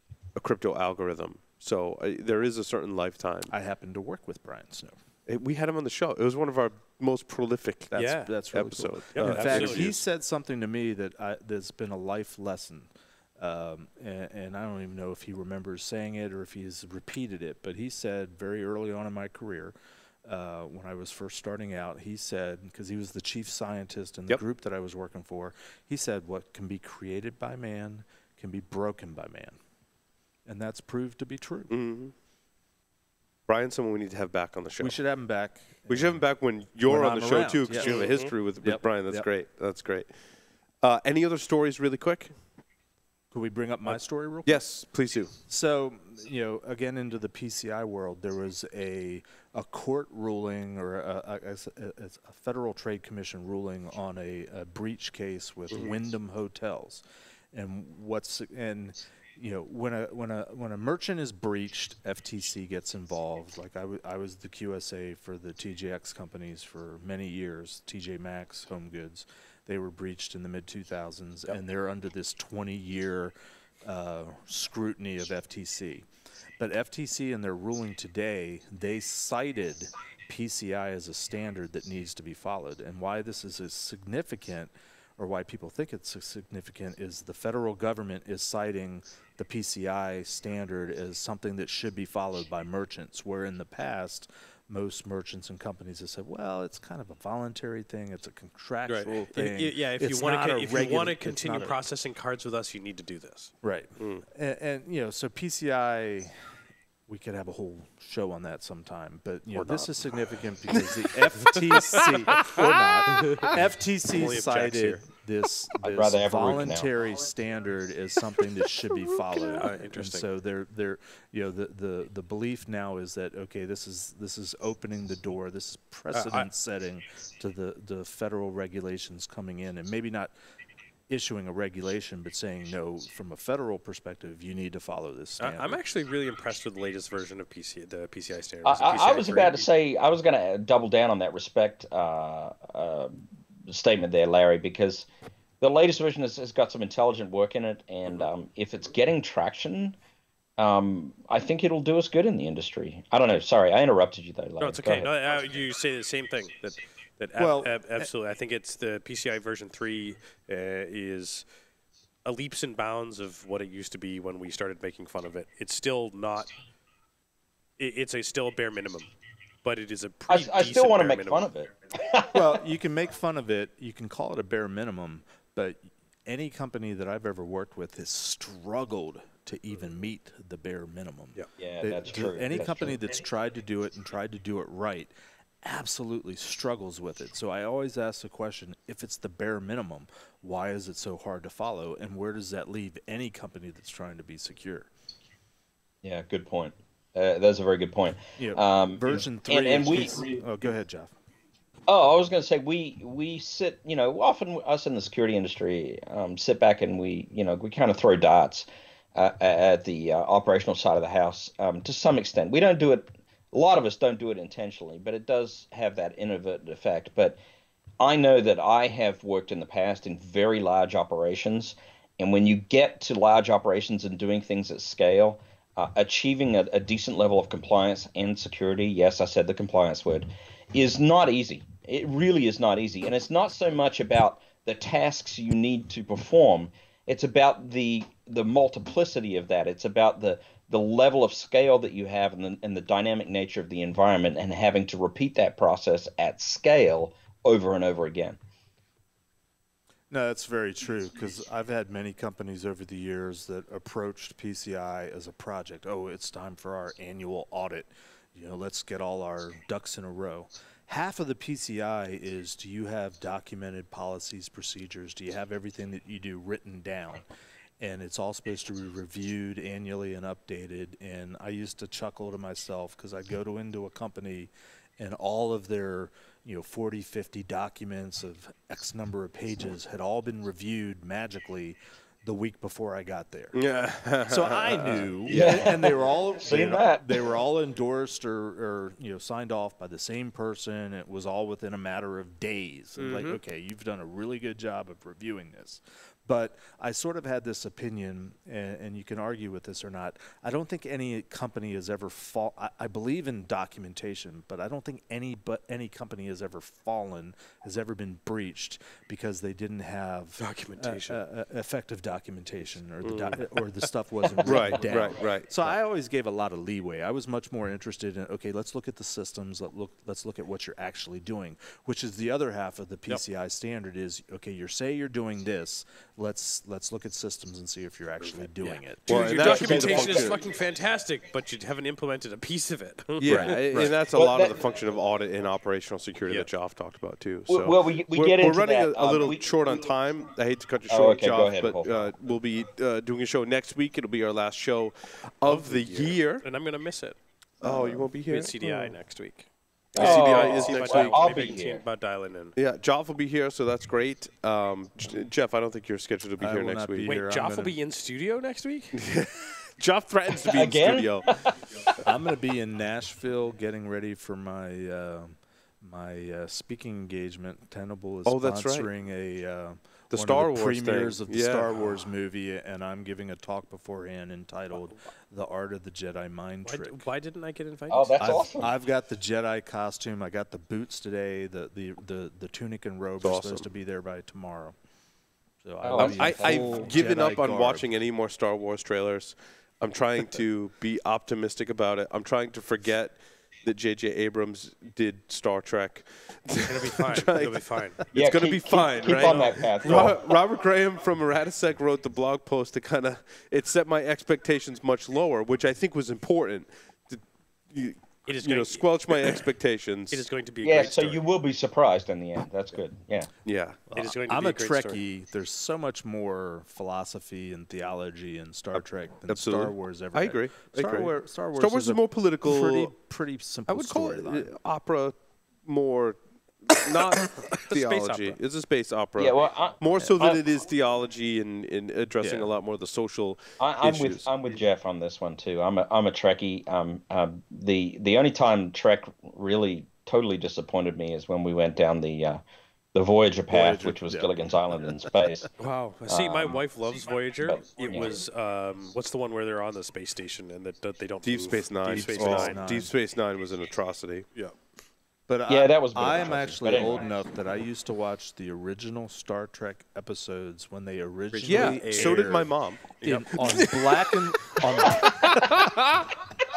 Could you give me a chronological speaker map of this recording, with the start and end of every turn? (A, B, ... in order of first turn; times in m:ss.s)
0:00.4-0:03.5 A
0:03.5-0:05.0 B
0:05.3-0:10.0 A
0:07.9-0:08.3 C
0:08.0-0:29.6 B
0:09.2-0:09.9 C
0:30.4-0:31.7 B
0:31.7-0:32.1 A
0:33.5-0:35.0 A
0:34.8-0:36.2 B
0:35.9-0:40.1 A
0:36.8-0:38.1 B
0:37.8-0:38.3 C
0:38.6-0:39.3 B
0:40.8-0:42.3 A
0:43.3-0:44.6 B
0:43.8-0:45.3 A
0:45.5-1:41.8 B
1:38.9-1:43.5 C
1:43.6-1:46.3 B
1:47.1-2:10.3 B
1:49.5-1:49.9 C
1:51.8-1:53.5 C
1:54.1-1:55.0 C
1:55.8-1:56.9 D
1:59.3-2:00.3 C
2:06.1-2:06.5 C
2:11.1-2:15.8 B
2:15.4-2:19.7 C
2:18.6-2:25.1 D
2:25.6-2:30.0 D
2:30.6-2:35.1 D
2:34.6-2:41.4 C
2:37.4-2:38.1 B
2:42.2-2:46.5 C
2:47.8-2:49.1 C
2:49.6-2:51.5 C
2:50.3-2:52.5 D
2:52.3-3:14.9 B
3:01.6-3:03.0 D
3:16.0-3:20.4 D
3:18.4-3:21.1 B
3:21.9-3:37.4 D
3:38.0-4:08.4 D
4:10.1-4:27.2 B
4:27.8-4:43.6 B
4:43.5-4:45.7 A
4:44.3-5:29.9 B
4:45.3-4:47.2 D
4:53.0-4:53.4 C
5:10.4-5:11.2 A
5:13.0-5:13.4 A
5:14.4-5:15.7 A
5:28.6-5:33.9 C
5:29.1-5:30.5 A
5:29.5-5:30.3 D
5:33.2-5:46.4 A
5:33.2-5:33.9 B
5:34.1-5:34.6 D
5:37.5-5:39.5 D
5:40.9-5:42.1 D
5:45.4-5:47.2 C
5:47.6-5:48.1 D
5:47.6-5:48.5 A
5:48.3-5:52.5 C
5:49.9-5:51.2 A
5:49.9-5:51.8 D
5:52.6-5:57.1 A
5:56.4-5:57.8 B
5:57.0-5:59.0 C
5:58.9-6:01.4 A
6:00.4-6:02.0 D
6:02.0-6:17.1 B
6:08.2-6:08.9 A
6:10.1-6:11.7 A
6:16.6-6:18.4 C
6:17.9-6:18.7 D
6:18.2-6:24.8 B
6:23.2-6:23.7 A
6:25.6-6:27.9 B
6:25.8-6:26.8 D
6:25.9-6:50.3 A
6:36.7-6:38.0 C
6:38.1-6:40.2 D
6:39.2-6:39.5 C
6:48.2-6:48.8 C
6:50.1-6:51.2 C
6:50.6-6:53.3 D
6:53.4-6:53.8 A
6:53.9-7:04.5 B
6:53.9-6:55.0 C
6:58.8-7:02.9 A
7:03.7-7:14.3 A
7:07.3-7:08.4 C
7:09.2-7:10.4 D
7:12.2-7:12.5 B
7:13.6-7:22.4 D
7:22.9-7:25.5 D
7:23.5-7:25.1 B
7:25.6-7:32.6 C
7:26.1-7:26.6 D
7:27.4-7:28.2 D
7:31.2-7:34.3 A
7:31.9-7:32.9 B
7:35.3-7:45.8 B
7:35.5-7:37.0 D
7:41.3-7:42.4 C
7:41.4-7:46.1 A
7:43.0-7:43.6 C